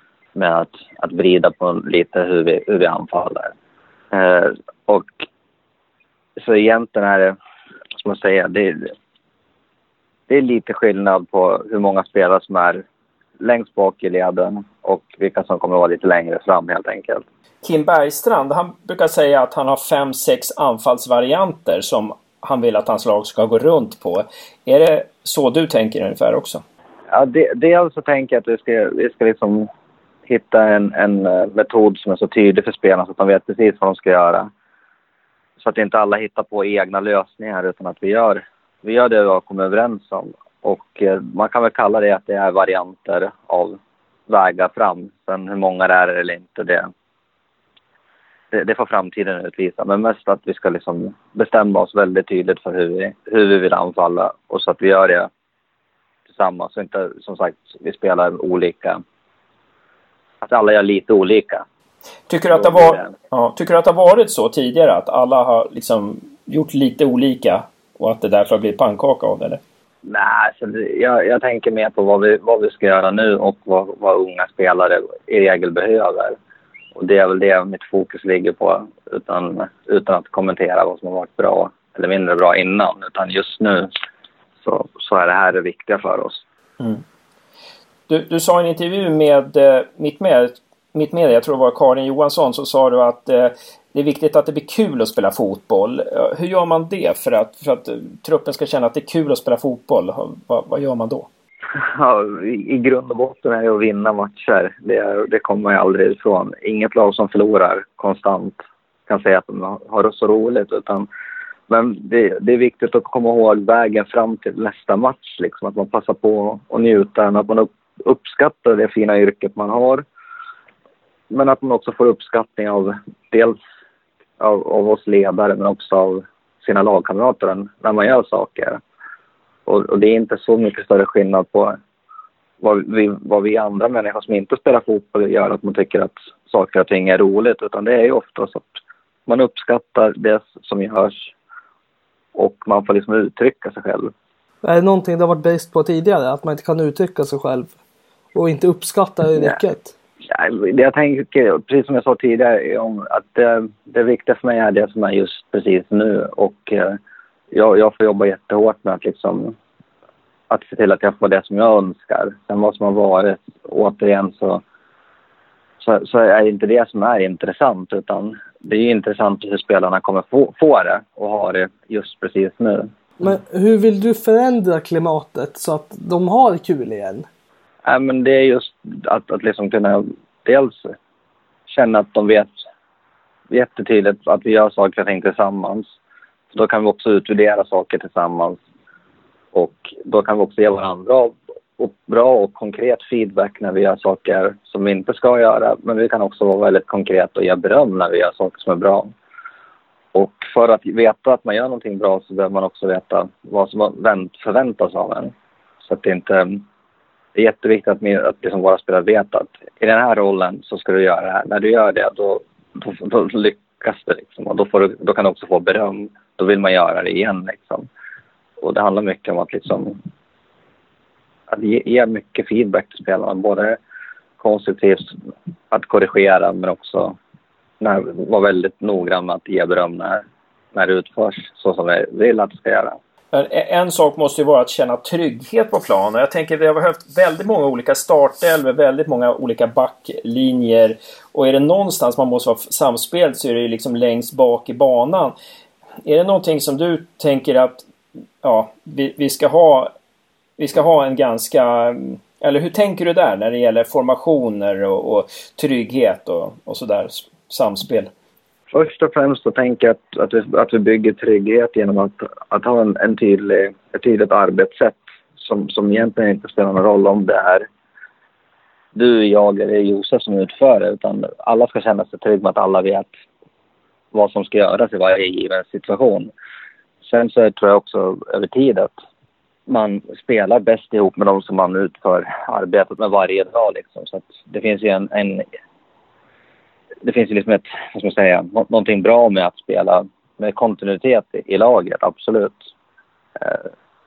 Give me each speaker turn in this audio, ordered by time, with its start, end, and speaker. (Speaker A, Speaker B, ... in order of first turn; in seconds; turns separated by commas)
Speaker A: 0.3-3.5, Speaker A: 4.1-5.2, Speaker A: 6.4-7.3, Speaker A: 8.0-8.9, Speaker A: 10.3-12.8, Speaker A: 13.4-17.2, Speaker B: 17.6-26.6, Speaker A: 27.1-29.7, Speaker A: 30.3-34.5, Speaker A: 35.6-43.8, Speaker A: 44.3-46.9, Speaker A: 48.5-55.3, Speaker A: 56.3-59.0, Speaker A: 60.4-61.6, Speaker B: 62.3-69.6, Speaker A: 62.5-63.1, Speaker A: 70.0-76.4, Speaker A: 76.9-83.9, Speaker A: 84.6-86.4, Speaker B: 88.1-101.3, Speaker A: 101.8-111.1, Speaker A: 111.7-120.0, Speaker A: 121.3-123.6, Speaker A: 124.4-128.8, Speaker A: 129.7-131.8, Speaker A: 132.6-141.3, Speaker A: 142.3-144.1, Speaker C: 144.6-147.7, Speaker C: 148.3-149.9, Speaker A: 150.3-157.0, Speaker A: 157.5-159.6, Speaker A: 160.5-164.6, Speaker A: 165.8-172.9, Speaker C: 173.2-177.3, Speaker A: 177.8-180.9, Speaker A: 181.7-182.5, Speaker A: 183.5-185.9, Speaker A: 186.5-188.6, Speaker A: 189.5-199.1, Speaker A: 200.1-205.3, Speaker A: 205.8-206.6, Speaker A: 207.3-217.9, Speaker A: 218.6-220.0, Speaker A: 221.5-223.8, Speaker A: 224.4-225.2, Speaker A: 225.7-227.2, Speaker A: 227.8-230.2, Speaker A: 230.7-233.0, Speaker B: 233.3-245.3, Speaker B: 246.0-247.8, Speaker B: 248.4-249.9, Speaker B: 250.6-258.1, Speaker A: 258.7-267.7, Speaker A: 268.9-273.1, Speaker A: 274.1-276.3, Speaker A: 277.0-278.9, Speaker A: 279.7-285.4, Speaker A: 287.0-292.6